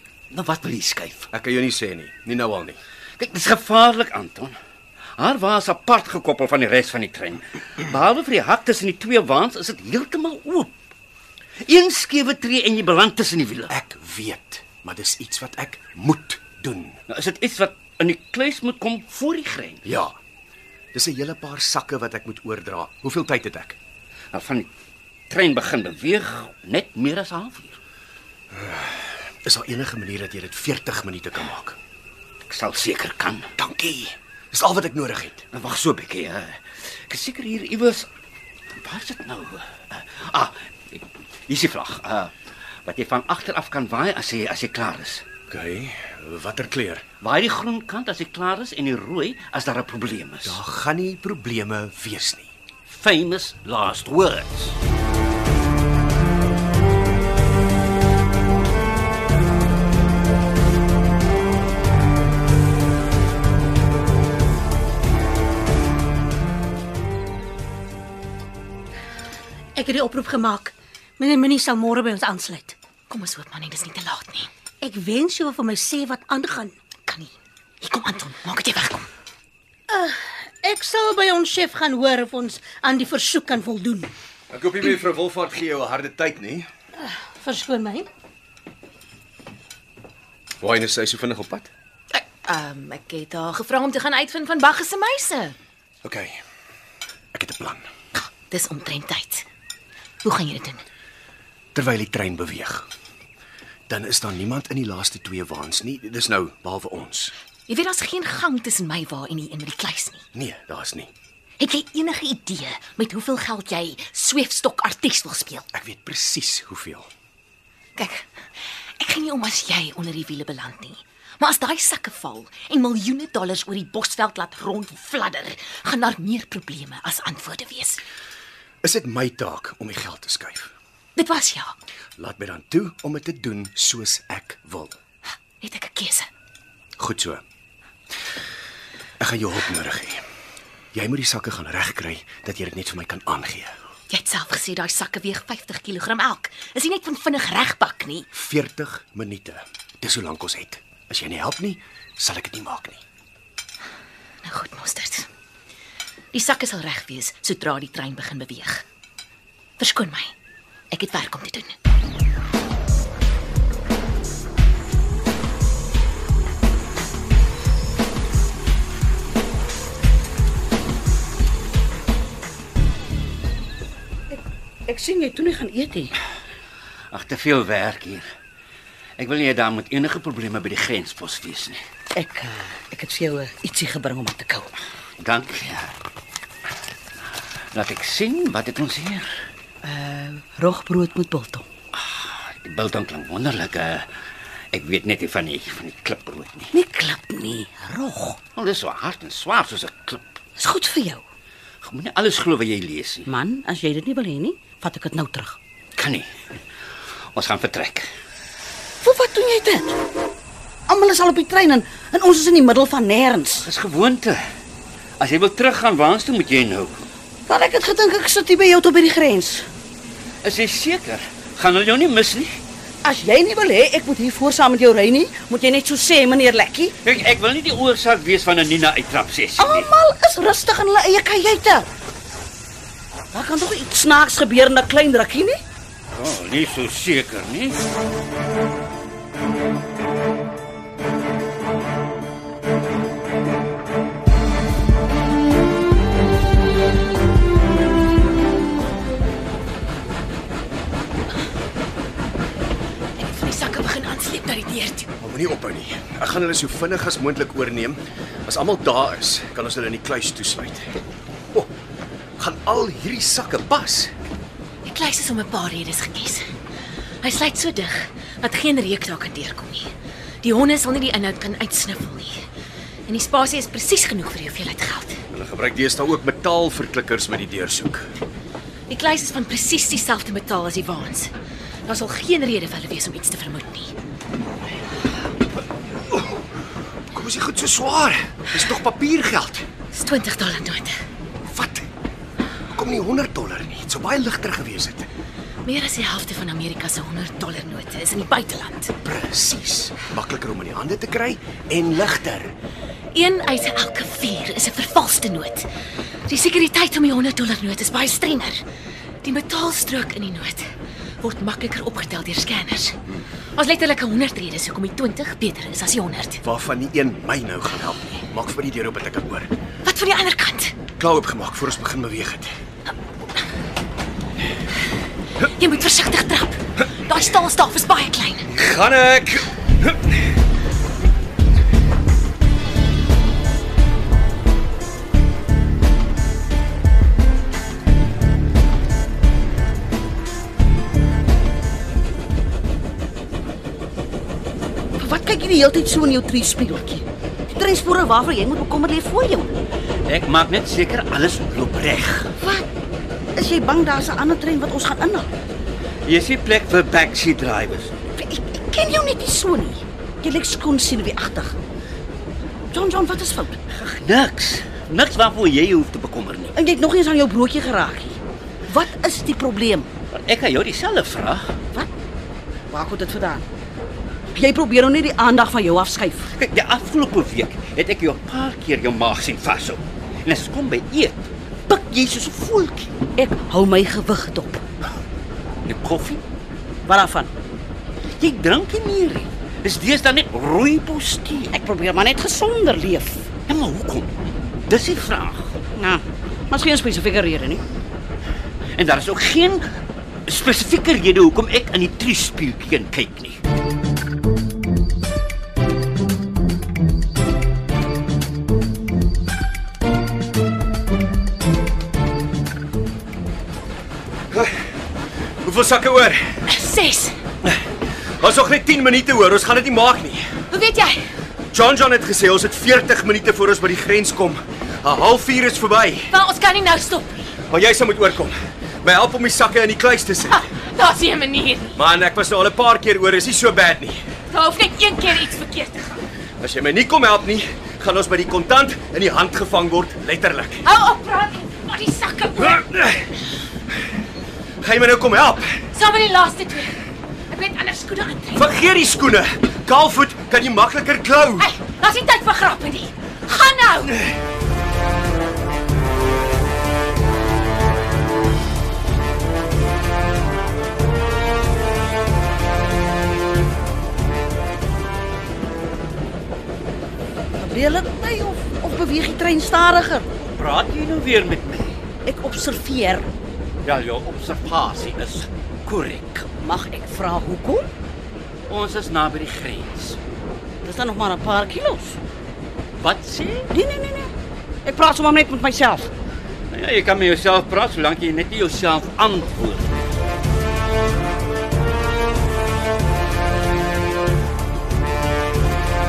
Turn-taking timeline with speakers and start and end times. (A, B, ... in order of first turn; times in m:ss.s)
0:00.3-0:01.3 A
0:01.3-0:02.8 B
0:03.2-0:04.6 A
0:05.2-0:10.7 A
0:11.6-0:13.8 A
0:13.7-0:17.0 B
0:17.1-0:19.8 A
0:19.8-0:20.2 B
0:20.9-0:23.8 B
0:24.3-0:24.7 A
0:25.3-0:27.8 A
0:28.5-0:31.8 B
0:32.5-0:33.5 A
0:33.6-0:35.5 B
0:35.5-0:38.1 A
0:38.8-0:42.3 A
0:42.9-0:45.2 A
0:45.5-0:47.0 B
0:47.2-0:50.6 A
0:50.4-0:52.5 B
0:52.9-0:54.8 A
1:09.8-1:12.8 C
1:13.1-1:14.5 D
1:14.8-1:16.8 C
1:17.0-1:19.1 D
1:19.9-1:24.1 C
1:24.5-1:26.7 B
1:27.0-1:28.1 C
1:30.6-1:31.7 B
1:32.1-1:35.6 D
1:36.0-1:36.4 B
1:37.3-1:37.8 B
1:38.2-1:39.5 D
1:40.2-1:40.8 D
1:41.7-1:42.9 B
1:43.9-1:47.3 B
1:47.7-1:50.2 D
1:50.4-1:51.1 B
1:51.6-1:55.7 D
1:55.7-1:57.1 B
1:58.0-1:58.3 D
1:59.0-2:08.0 D
2:08.8-2:10.7 B
2:11.2-2:11.7 D
2:12.2-2:15.0 B
2:15.6-2:16.3 D
2:17.0-2:17.4 B
2:19.2-2:20.2 B
2:20.9-2:23.8 B
2:24.1-2:28.3 D
2:28.3-2:33.0 B
2:34.4-2:35.3 D
2:36.3-2:38.8 D
2:39.8-2:40.3 D
2:40.9-2:41.8 D
2:54.3-2:56.1 E
2:57.1-2:58.2 A
2:59.2-3:01.8 A
3:02.2-3:04.7 E
3:05.2-3:06.0 A
3:07.7-3:09.3 A
3:09.8-3:11.6 E
3:11.9-3:14.1 A
3:14.7-3:16.7 A
3:16.7-3:18.4 E
3:18.5-3:20.4 A
3:20.6-3:21.2 E
3:21.8-3:23.3 A
3:23.3-3:25.6 E
3:26.0-3:26.3 A
3:27.3-3:28.1 A
3:29.0-3:30.0 E
3:30.9-3:33.7 E
3:33.6-3:34.4 A
3:35.2-3:37.0 A
3:37.5-3:39.7 E
3:40.4-3:42.6 A
3:43.0-3:47.0 E
3:47.0-3:49.9 A
3:49.6-3:51.9 E
3:53.3-3:55.6 E
3:56.1-3:57.9 A
4:13.2-4:15.1 D
4:15.2-4:20.9 B
4:22.4-4:24.1 B
4:24.8-4:26.5 D
4:27.2-4:29.9 D
4:30.4-4:32.4 D
4:33.1-4:35.2 D
4:35.3-4:38.1 B
4:38.9-4:41.3 D
4:41.9-4:43.9 D
4:47.1-4:49.7 B
4:49.9-4:51.0 D
4:51.5-4:51.9 B
4:52.7-4:55.1 B
4:55.6-4:58.9 D
4:59.0-5:02.5 B
5:03.1-5:05.7 D
5:06.3-5:08.6 D
5:09.2-5:10.6 D
5:11.2-5:13.0 D
5:13.6-5:16.4 D
5:16.4-5:19.5 B
5:19.8-5:20.8 D
5:21.0-5:22.5 B
5:25.5-5:28.5 D
5:28.5-5:30.0 B
5:45.0-5:49.6 E
5:50.1-5:52.4 A
5:52.4-5:52.7 E
5:53.4-5:55.3 E
5:56.1-5:57.9 A
5:58.2-6:01.6 E
6:02.7-6:03.6 E
6:03.7-6:06.6 A
6:06.6-6:08.2 E
6:08.7-6:09.9 E
6:10.1-6:11.5 A
6:12.7-6:13.5 E
6:14.3-6:16.3 E
6:16.3-6:23.0 A
6:23.2-6:24.6 E
6:25.7-6:26.2 A
6:26.9-6:27.3 E
6:28.2-6:31.5 A
6:31.5-6:33.3 E
6:33.5-6:34.1 A
6:34.7-6:35.6 A
6:35.8-6:37.6 E
6:38.8-6:39.6 A
6:40.3-6:43.4 A
6:55.4-6:56.2 B
6:56.5-6:57.2 D
6:58.2-7:00.2 B
7:00.5-7:01.1 D
7:01.5-7:06.1 B
7:06.1-7:07.1 D
7:07.5-7:10.4 B
7:10.3-7:11.8 D
7:11.8-7:14.0 B
7:14.3-7:16.0 D
7:16.4-7:20.6 B
7:20.6-7:22.7 D
7:22.4-7:23.1 B
7:24.6-7:25.6 B
7:25.7-7:26.7 D
7:27.3-7:28.6 D
7:28.4-7:31.5 B
7:31.4-7:34.1 D
7:47.4-7:50.1 E
7:50.2-7:51.8 A
7:52.1-7:53.1 E
7:53.6-7:56.4 A
7:56.4-7:57.7 E
7:58.5-8:00.0 A
8:00.6-8:02.0 E
8:02.8-8:03.5 A
8:03.5-8:04.1 E
8:04.6-8:05.9 E
8:06.5-8:09.7 A